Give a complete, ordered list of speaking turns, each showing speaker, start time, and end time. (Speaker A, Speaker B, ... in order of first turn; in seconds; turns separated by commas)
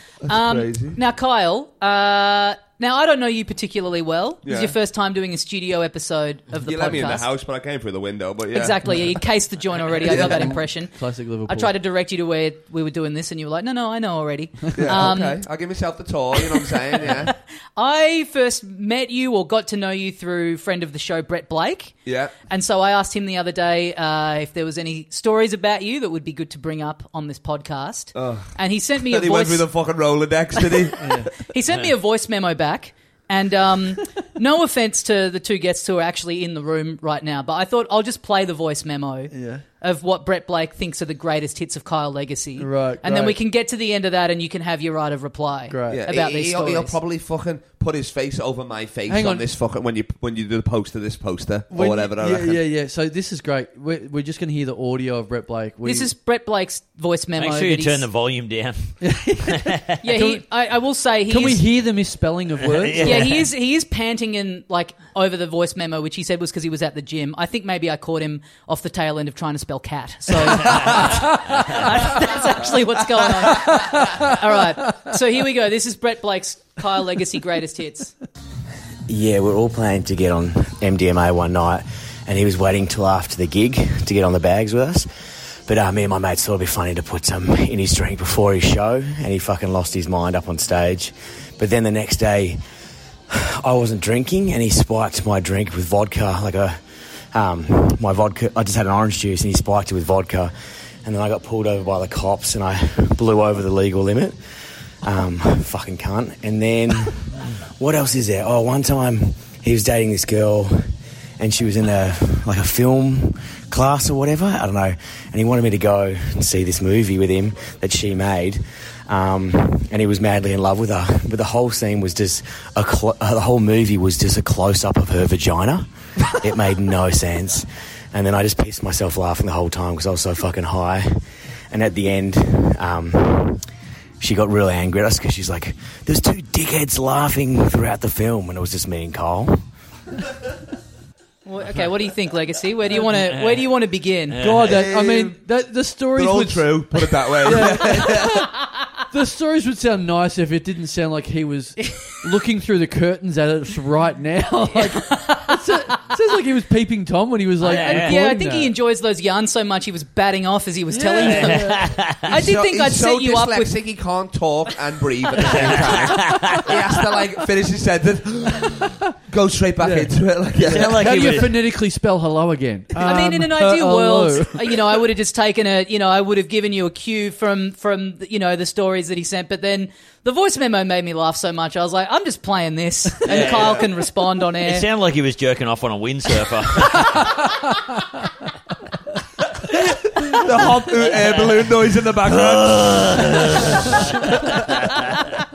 Speaker A: 0.2-1.0, Speaker B: 0.3-7.3, Speaker A: 4.4-4.7, Speaker A: 6.6-9.2, Speaker B: 8.5-10.9, Speaker A: 10.0-10.6, Speaker C: 10.0-11.7, Speaker B: 11.5-15.4, Speaker A: 14.7-17.3, Speaker B: 16.4-29.7, Speaker A: 22.0-22.3, Speaker A: 28.1-31.3, Speaker B: 30.6-30.9, Speaker C: 31.0-31.3, Speaker B: 31.4-47.0, Speaker C: 39.3-39.6, Speaker C: 42.6-43.4, Speaker C: 45.7-46.0, Speaker A: 45.9-52.6, Speaker C: 49.1-49.5, Speaker C: 51.7-56.1, Speaker B: 55.8-58.0, Speaker D: 57.4-59.9, Speaker C: 59.0-60.5, Speaker B: 60.0-61.6, Speaker C: 61.3-63.4, Speaker D: 62.6-63.4, Speaker B: 63.0-78.1, Speaker C: 70.5-72.2, Speaker D: 70.6-71.1, Speaker C: 73.4-75.1, Speaker E: 79.1-85.1, Speaker E: 85.7-92.6, Speaker E: 93.3-96.8, Speaker E: 97.3-100.5, Speaker E: 101.0-104.3, Speaker E: 105.0-110.8, Speaker E: 111.4-131.2, Speaker E: 131.7-133.6, Speaker E: 134.2-139.6, Speaker B: 141.4-144.4, Speaker D: 143.1-143.7, Speaker D: 144.3-144.8, Speaker C: 144.4-146.8, Speaker A: 144.6-145.4, Speaker A: 146.1-148.5, Speaker C: 147.4-148.5, Speaker C: 149.1-158.7, Speaker B: 154.9-155.8, Speaker D: 157.6-158.2, Speaker B: 157.7-163.7, Speaker C: 160.9-161.9, Speaker D: 161.2-162.3, Speaker A: 162.2-171.4, Speaker D: 165.4-166.7, Speaker C: 168.6-168.9, Speaker C: 169.8-174.9, Speaker D: 170.6-171.5, Speaker B: 173.0-184.8, Speaker D: 183.2-183.9, Speaker A: 183.3-183.9, Speaker D: 184.6-187.4, Speaker A: 189.7-195.1, Speaker D: 191.1-195.2